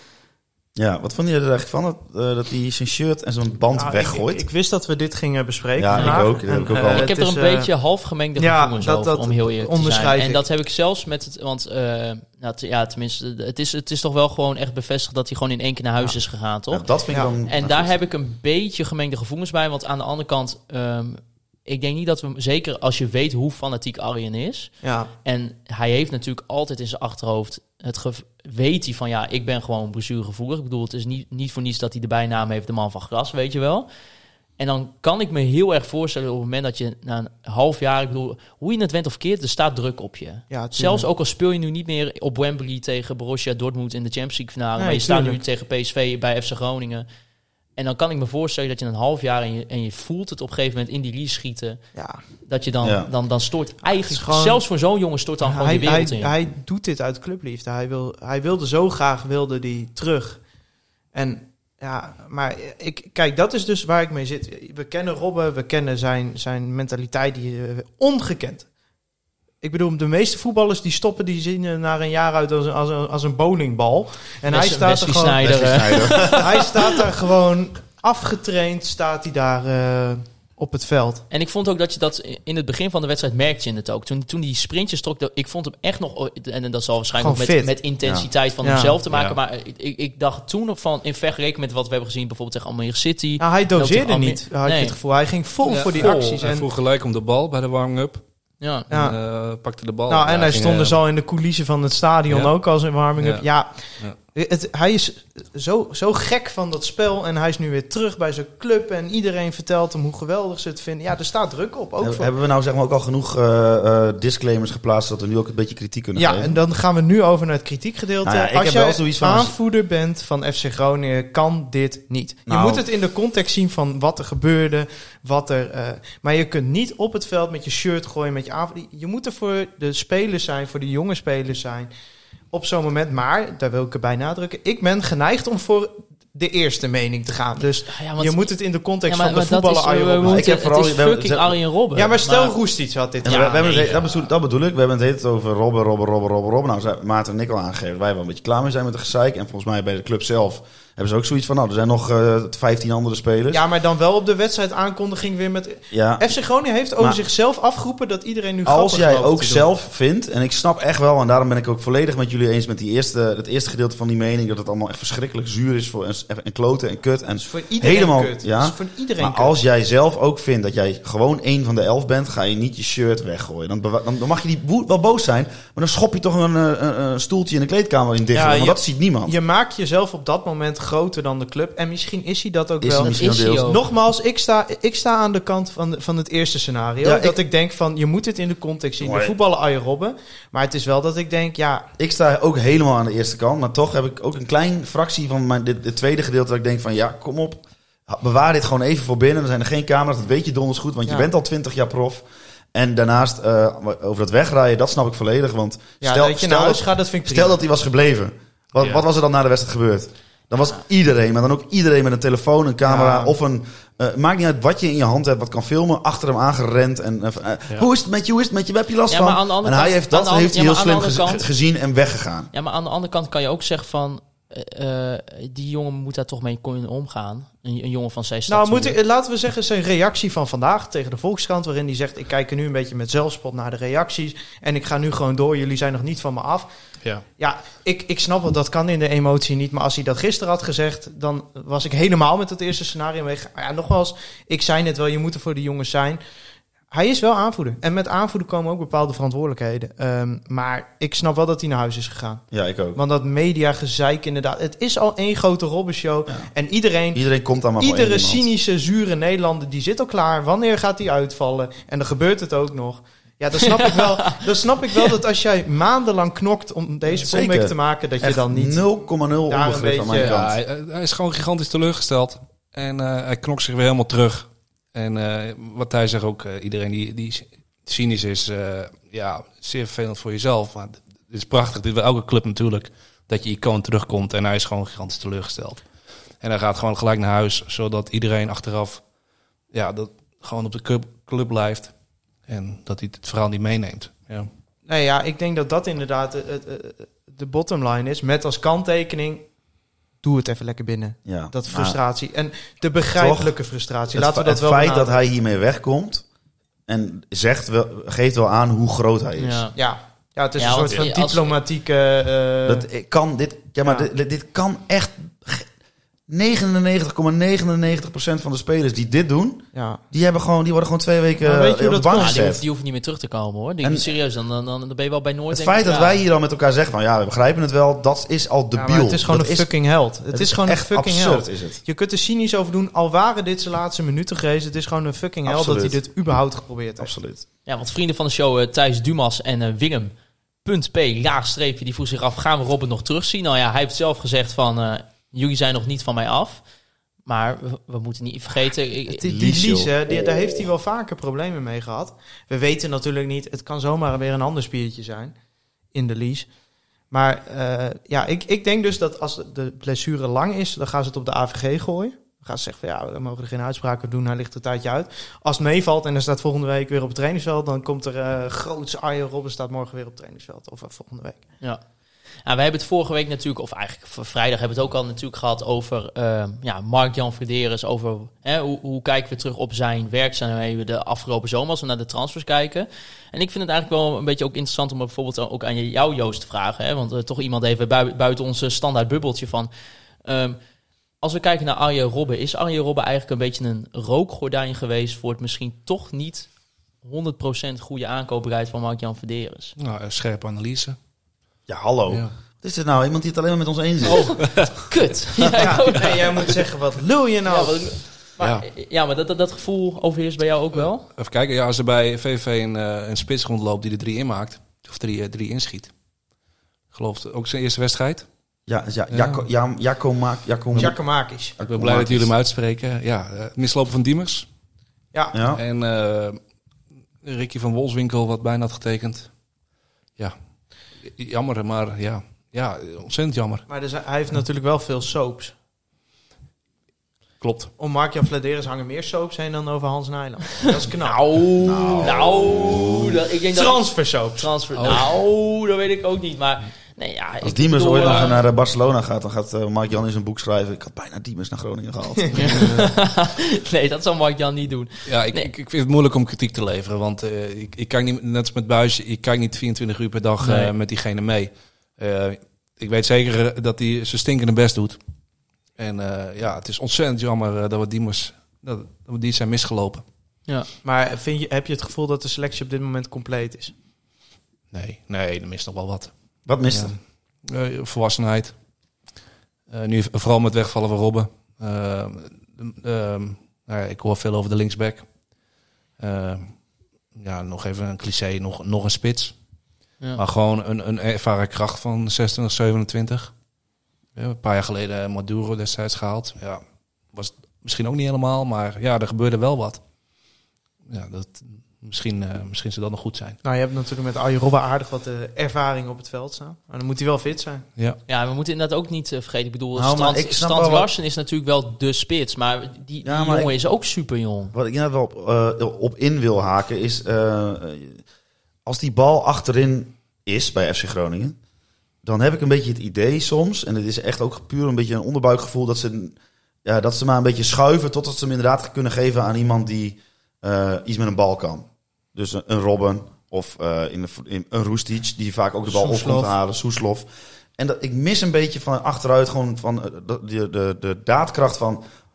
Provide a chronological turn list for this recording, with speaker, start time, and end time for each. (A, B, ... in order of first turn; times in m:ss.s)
0:00.8-0:04.5 A
0:03.7-0:07.7 B
0:05.8-0:07.1 A
0:05.9-0:16.9 C
0:08.4-0:10.4 B
0:16.7-0:18.0 A
0:17.4-0:33.9 C
0:24.8-0:25.1 B
0:34.6-0:47.0 C
0:40.5-0:41.1 B
0:44.8-0:45.4 B
0:47.8-0:51.8 C
0:51.9-0:52.2 B
0:52.4-0:56.3 C
0:52.8-0:53.1 A
0:53.8-0:54.6 B
0:55.4-1:00.4 B
1:01.1-1:08.7 B
1:09.6-1:15.4 B
1:14.5-1:16.9 C
1:15.4-1:16.4 A
1:16.2-1:21.2 B
1:21.3-1:35.0 C
1:27.2-1:27.7 B
1:28.0-1:28.3 A
1:28.6-1:29.0 B
1:29.1-1:29.4 D
1:33.4-1:36.6 B
1:35.6-1:36.4 C
1:36.0-1:38.2 D
1:38.6-1:38.9 C
1:38.9-1:41.0 D
1:38.9-1:39.2 B
1:40.1-1:52.3 B
1:42.3-1:42.5 D
1:43.2-1:43.4 D
1:52.0-1:56.6 A
1:56.2-2:11.9 B
1:58.2-1:59.6 A
2:02.5-2:02.8 A
2:12.5-2:20.5 B
2:17.9-2:18.5 C
2:19.0-2:22.6 C
2:20.2-2:21.6 A
2:21.9-2:23.9 B
2:23.2-2:33.6 A
2:23.2-2:24.2 C
2:33.5-2:39.7 B
2:35.9-2:36.3 A
2:38.6-2:59.4 A
2:47.4-2:49.5 B
2:58.3-3:11.9 B
3:02.8-3:03.7 A
3:03.1-3:03.8 C
3:07.0-3:07.4 A
3:09.0-3:09.3 A
3:12.0-3:42.5 A
3:26.0-3:27.6 B
3:28.8-3:29.0 D
3:32.8-3:33.4 B
3:39.1-3:41.4 C
3:42.5-3:49.0 C
3:48.5-3:56.7 B
3:57.4-4:06.2 B
4:06.9-4:17.2 B
4:12.5-4:13.0 A
4:17.1-4:18.4 A
4:17.8-4:28.9 B
4:23.8-4:24.3 C
4:27.2-4:30.6 A
4:29.5-4:30.4 B
4:30.1-4:45.8 D
4:46.4-4:49.0 D
4:49.7-4:51.9 D
4:52.5-4:54.5 D
4:54.9-4:59.5 B
5:00.2-5:05.1 B
5:01.2-5:02.0 A
5:03.1-5:03.5 A
5:04.1-5:06.2 A
5:06.9-5:09.7 A
5:09.4-5:09.7 C
5:09.7-5:12.8 B
5:10.6-5:11.5 C
5:12.6-5:15.7 A
5:13.8-5:14.1 B
5:16.3-5:22.6 A
5:19.7-5:20.0 B
5:21.4-5:22.5 B
5:22.1-5:26.2 C
5:23.8-5:24.1 A
5:25.5-5:29.7 A
5:28.7-5:37.1 B
5:30.3-5:31.8 A
5:35.4-5:36.0 A
5:37.0-5:37.4 A
5:37.6-5:40.1 C
5:40.6-5:46.6 C
5:47.2-5:49.2 C
5:49.1-5:55.3 B
5:49.2-5:50.6 A
5:55.9-5:56.5 B
5:57.1-6:11.4 B
6:12.4-6:29.7 C
6:30.2-6:30.6 C
6:31.2-6:36.5 C
6:37.0-6:39.7 C
6:39.8-6:41.0 D
6:41.7-6:44.5 A
6:44.0-6:46.6 C
6:44.1-6:44.8 D
6:45.5-6:47.9 B
6:47.4-6:51.1 C
6:48.4-6:48.6 D
6:51.1-6:55.9 D
6:56.9-6:58.2 D
6:58.7-7:01.0 A
6:59.1-6:59.4 D
7:00.7-7:01.5 B
7:01.6-7:02.3 A
7:01.6-7:04.5 D
7:05.1-7:05.4 B
7:05.3-7:05.6 A
7:05.5-7:06.4 D
7:07.2-7:09.3 D
7:11.0-7:13.6 D
7:13.7-7:15.5 B
7:17.4-7:17.7 D
7:17.8-7:21.2 B
7:21.0-7:28.4 C
7:21.6-7:23.2 A
7:23.5-7:24.5 B
7:24.8-7:25.0 D
7:27.4-7:32.5 A
7:32.2-7:32.5 B
7:32.3-7:32.9 D
7:32.3-7:35.5 C
7:35.0-7:45.0 D
7:40.4-7:40.7 C
7:45.8-7:50.0 D
7:50.8-7:53.7 B
7:54.7-7:56.1 D
7:56.4-7:57.0 A
7:56.7-7:58.5 D
7:59.7-8:05.1 D
8:06.0-8:06.5 D
8:07.1-8:09.3 D
8:10.2-8:13.3 D
8:14.1-8:19.8 D
8:20.9-8:23.4 D
8:23.4-8:27.6 B
8:28.1-8:34.5 C
8:29.8-8:30.9 A
8:33.0-8:33.5 A
8:34.5-8:38.0 A
8:38.6-8:41.4 A
8:42.0-9:01.8 A
8:55.7-8:56.3 B